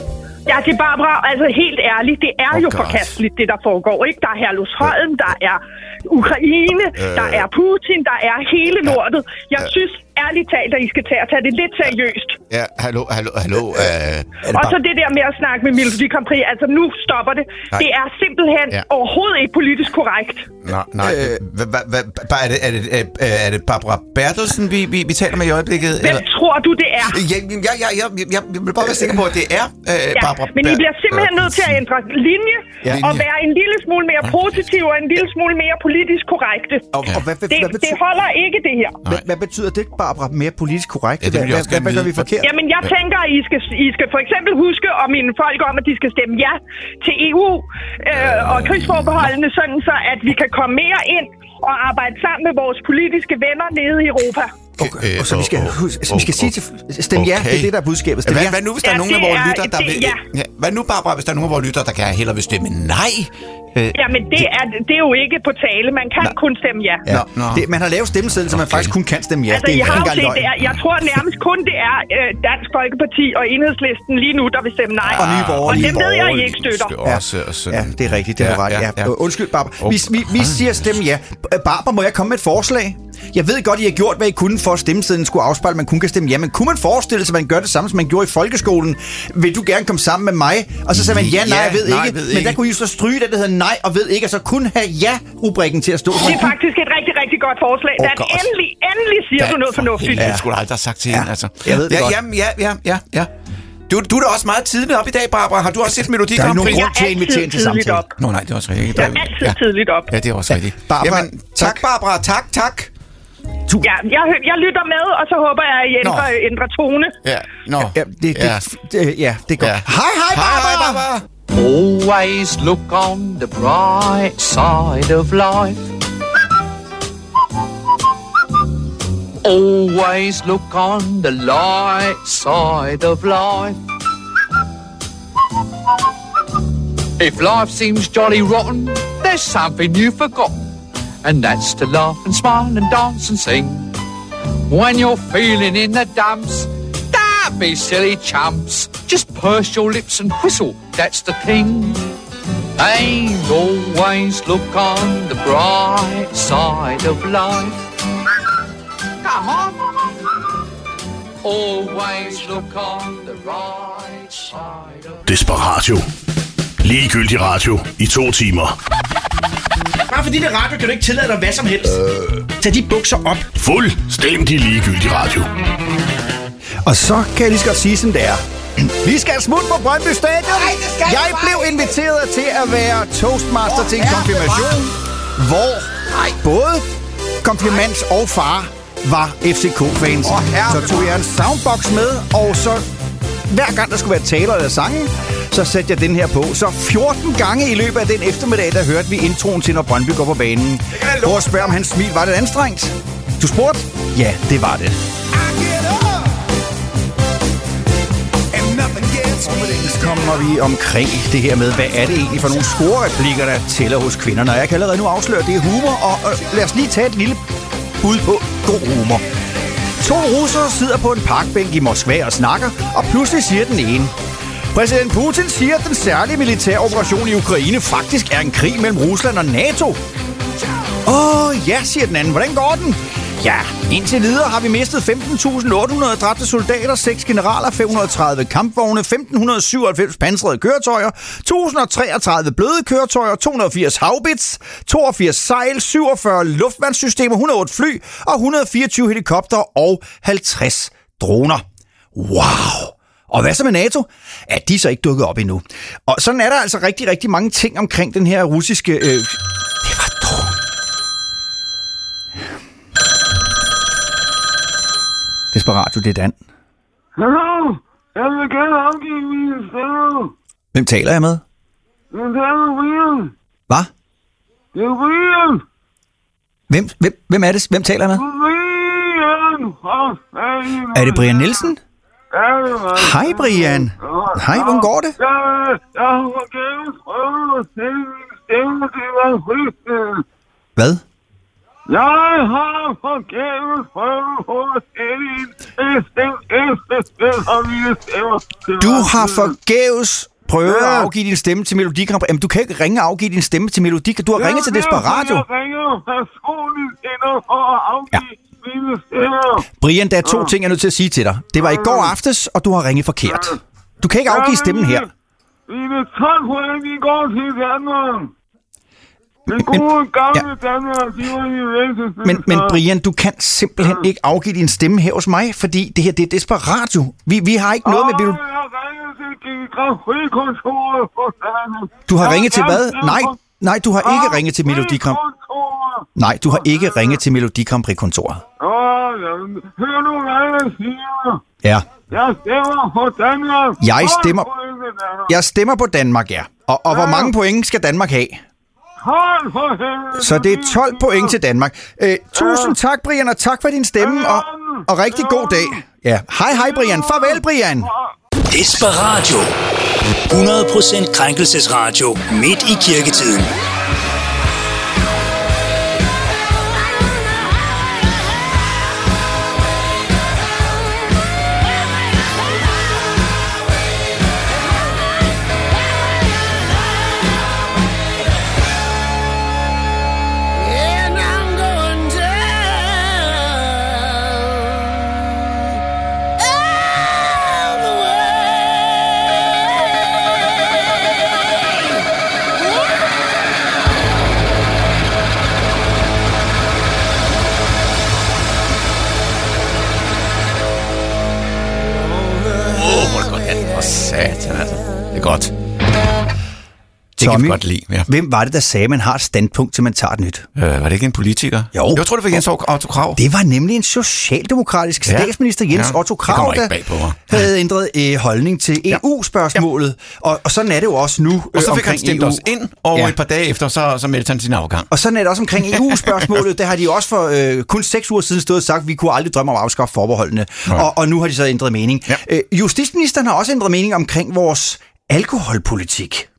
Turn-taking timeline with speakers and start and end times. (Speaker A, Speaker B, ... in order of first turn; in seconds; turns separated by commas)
Speaker A: 0.5-12.4, Speaker B: 2.5-3.1, Speaker B: 7.0-7.5, Speaker B: 12.5-14.3, Speaker C: 14.4-14.8, Speaker A: 14.5-20.5, Speaker B: 20.6-26.2, Speaker C: 21.0-21.4, Speaker A: 26.0-27.2, Speaker B: 27.0-31.7, Speaker C: 28.8-29.2, Speaker A: 30.1-36.9, Speaker B: 32.9-33.2, Speaker C: 36.9-38.0, Speaker A: 37.5-39.0, Speaker C: 39.1-42.5, Speaker B: 41.2-42.3, Speaker A: 42.4-54.5, Speaker B: 48.1-49.2, Speaker C: 54.8-58.6, Speaker B: 54.8-56.5, Speaker B: 57.1-57.7, Speaker B: 58.2-64.5, Speaker A: 58.8-60.2, Speaker A: 63.9-67.0, Speaker B: 67.1-67.7, Speaker C: 67.1-70.5, Speaker B: 68.5-68.9, Speaker A: 69.5-77.0, Speaker B: 75.0-79.2, Speaker C: 75.2-76.1, Speaker C: 77.0-96.5, Speaker B: 79.8-80.7, Speaker B: 90.9-92.6, Speaker A: 96.1-100.2, Speaker B: 98.0-98.5, Speaker B: 99.4-103.3, Speaker C: 100.2-100.4, Speaker C: 101.1-102.2, Speaker B: 103.9-106.9, Speaker C: 106.3-108.0, Speaker A: 106.6-108.1, Speaker B: 108.2-112.9, Speaker A: 109.0-110.1, Speaker C: 110.5-111.8, Speaker A: 113.8-117.1, Speaker C: 116.0-116.3, Speaker B: 117.2-118.6, Speaker C: 117.8-121.0, Speaker B: 119.6-121.2, Speaker D: 121.5-125.9, Speaker D: 129.4-133.8, Speaker D: 137.2-140.6, Speaker D: 141.2-143.9, Speaker D: 144.7-152.0, Speaker D: 152.8-157.8, Speaker D: 159.2-159.8, Speaker D: 161.4-165.3, Speaker E: 165.2-166.1, Speaker E: 166.8-168.8, Speaker C: 170.1-173.5, Speaker E: 173.6-175.5, Speaker C: 176.8-186.9, Speaker B: 180.4-181.9, Speaker B: 183.7-184.8, Speaker C: 187.4-192.8, Speaker B: 190.2-191.1, Speaker C: 193.5-205.0, Speaker B: 200.9-201.7, Speaker C: 208.5-217.4, Speaker C: 218.0-219.2, Speaker C: 220.0-224.1, Speaker C: 224.7-230.0, Speaker C: 231.0-251.6, Speaker C: 252.1-260.5, Speaker C: 265.5-266.4, Speaker F: 267.2-270.3, Speaker C: 270.7-271.4, Speaker F: 272.1-273.3, Speaker F: 274.7-275.6, Speaker C: 276.7-278.2, Speaker F: 278.1-281.7, Speaker C: 280.9-281.8, Speaker F: 282.3-290.2, Speaker C: 282.9-285.1, Speaker C: 290.8-291.0, Speaker F: 291.9-299.5, Speaker C: 298.8-305.4, Speaker F: 300.7-301.1, Speaker F: 304.4-309.6, Speaker C: 309.8-315.1, Speaker F: 310.2-310.5, Speaker F: 311.6-312.1, Speaker F: 313.3-313.6, Speaker F: 314.3-315.1, Speaker F: 315.7-318.3, Speaker C: 319.5-320.4, Speaker F: 319.5-322.8, Speaker C: 322.2-328.4, Speaker F: 327.8-333.4, Speaker C: 332.1-335.2, Speaker F: 334.0-337.2, Speaker C: 336.1-338.4, Speaker F: 338.6-341.4, Speaker F: 342.1-345.3, Speaker C: 343.8-344.5, Speaker C: 345.3-348.4, Speaker F: 346.9-347.3, Speaker F: 349.0-351.3, Speaker C: 350.2-357.9, Speaker F: 352.4-352.7, Speaker F: 354.0-355.7, Speaker F: 356.6-357.4, Speaker G: 358.5-359.5, Speaker G: 360.3-363.5, Speaker B: 402.6-405.5, Speaker B: 407.2-408.1, Speaker C: 407.2-410.5, Speaker B: 410.6-413.2, Speaker C: 411.7-412.4, Speaker C: 413.1-416.7, Speaker B: 415.1-417.5, Speaker C: 417.3-423.1, Speaker B: 421.5-424.9, Speaker C: 424.9-436.3